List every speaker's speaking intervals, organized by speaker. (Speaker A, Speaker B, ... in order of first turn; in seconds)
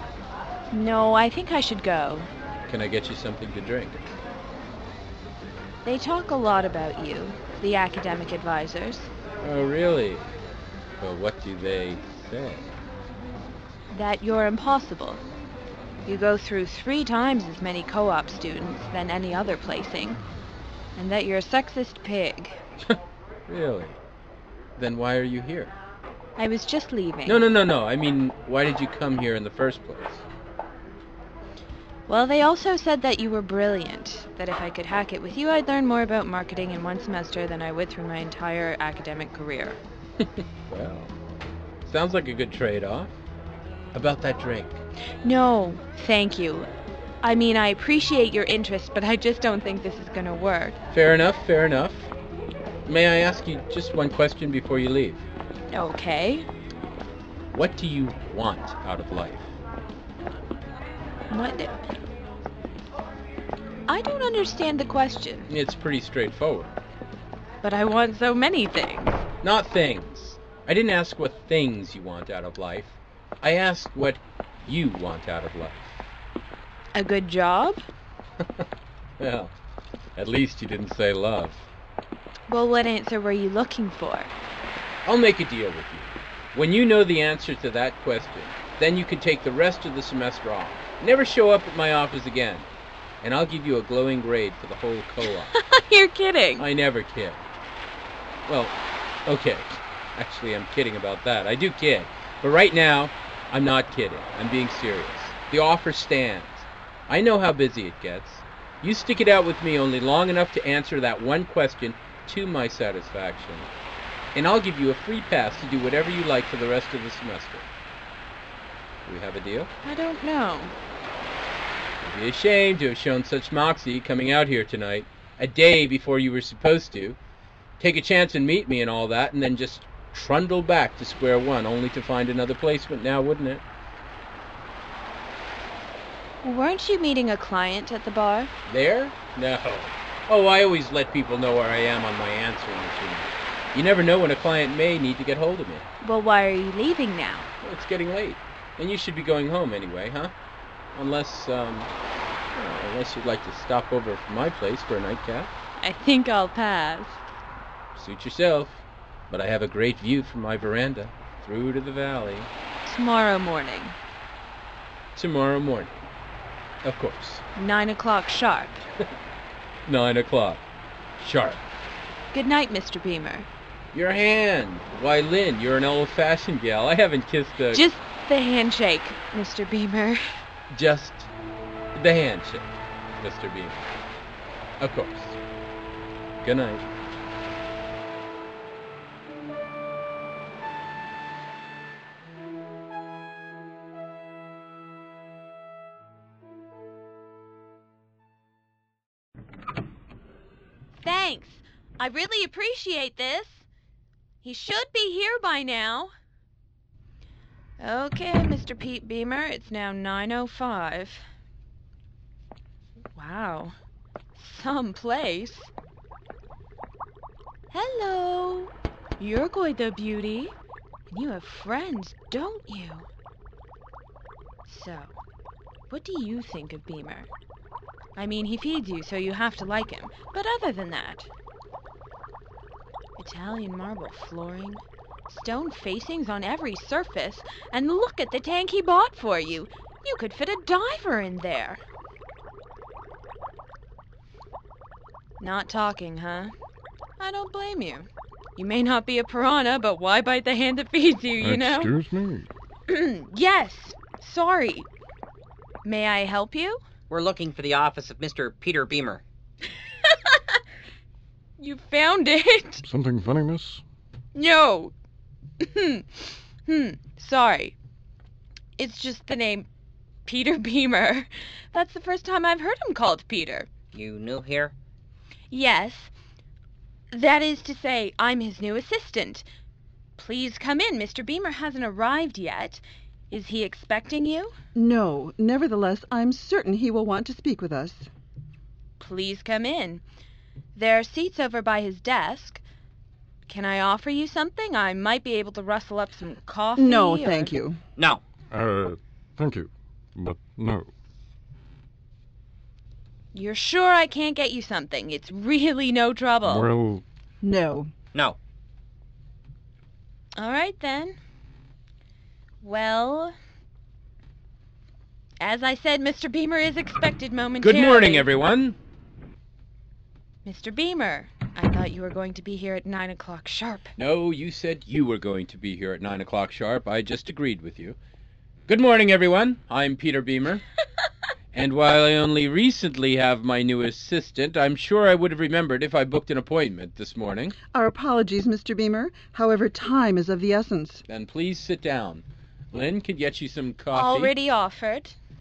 Speaker A: 0.7-2.3, 5.8-9.1, 13.9-15.2, 16.1-20.2, 20.9-22.6, 26.4-27.4, 32.1-39.8, 45.2-46.7, 47.2-50.8, 55.7-56.5, 61.3-62.0, 63.9-65.5, 67.6-69.2, 76.9-77.8, 82.5-84.3, 95.5-96.6, 119.8-120.7, 136.4-138.5, 146.0-147.5, 155.8-157.2, 162.8-163.9, 167.6-168.8, 172.3-173.5, 177.7-180.2, 200.9-203.7, 204.4-206.1, 207.8-211.2, 213.1-213.7, 214.3-215.7, 217.7-220.5, 221.1-223.1, 224.7-225.1, 225.9-227.3, 228.2-231.3, 233.2-241.8, 245.4-246.5, 247.2-251.9, 252.9-254.9, 255.8-256.8, 260.1-260.6, 261.6-262.8, 264.3-264.9, 265.6-267.7, 268.8-269.7, 270.2-273.7, 275.5-276.1, 277.1-279.4, 280.2-284.5, 289.0-290.0, 290.7-292.6, 293.5-297.5, 303.3-306.7, 310.4-311.2, 312.6-313.3, 315.4-318.3, 320.4-323.9, 343.9-345.2
Speaker B: 2.7-4.0, 9.4-10.3, 11.0-12.7, 23.5-24.0, 24.8-25.8, 27.2-30.2, 40.2-41.1, 41.8-43.1, 43.9-44.8, 50.9-52.1, 52.9-55.2, 57.5-59.5, 65.5-66.8, 69.4-76.0, 79.2-79.5, 80.2-81.7, 85.0-92.7, 93.2-95.5, 96.6-97.4, 98.5-98.7, 99.2-113.7, 114.3-117.7, 119.0-119.7, 122.0-127.2, 127.8-133.6, 138.7-145.9, 147.6-150.3, 150.9-151.9, 152.5-155.5, 157.9-162.5, 165.1-166.1, 166.8-167.4, 169.8-170.6, 171.2-171.6, 173.9-177.8, 180.7-181.3, 181.9-183.9, 184.8-185.4, 186.4-186.8, 317.6-318.8, 324.0-327.9, 328.7-330.6, 331.5-337.5, 341.1-344.3
Speaker C: 251.4-252.5, 262.8-263.8, 298.5-300.9, 306.4-307.0
Speaker D: 257.1-259.2, 273.9-274.7
Speaker E: 284.7-288.1, 296.8-297.8, 307.4-307.9, 337.7-341.0